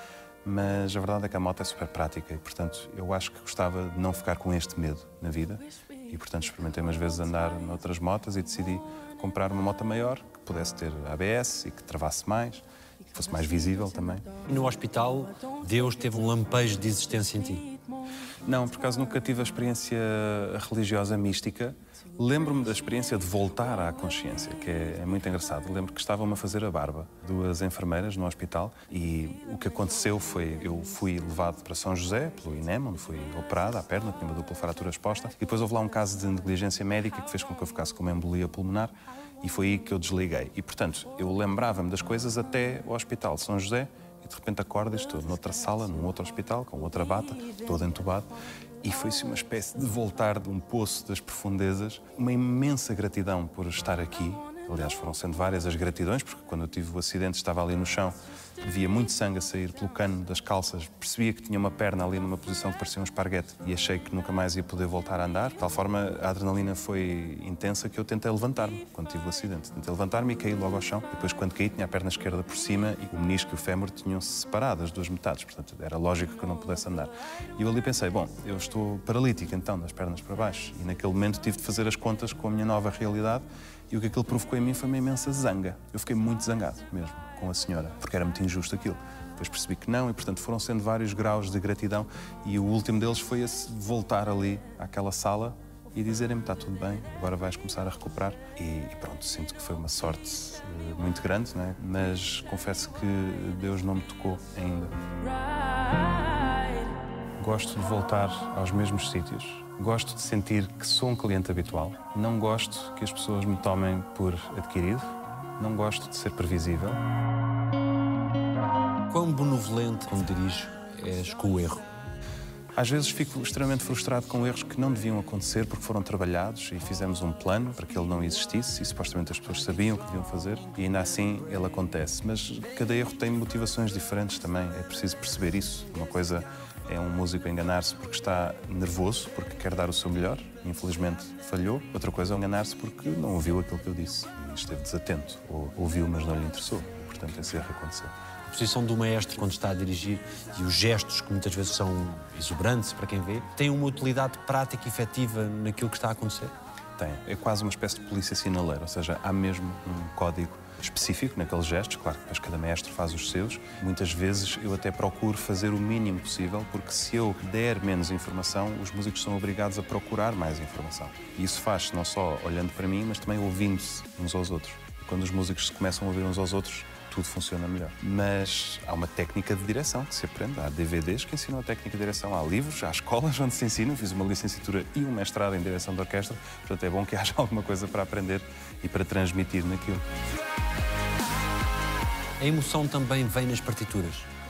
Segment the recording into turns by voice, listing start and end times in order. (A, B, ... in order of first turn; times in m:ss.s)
0:00.4-0:14.3 A
0:14.5-0:17.7 B
0:18.5-0:48.3 A
0:48.8-1:45.0 A
1:47.4-1:57.0 A
1:59.1-2:01.8 B
2:02.7-2:28.1 A
2:28.5-2:36.5 B
2:37.0-3:10.1 A
3:12.4-3:14.3 B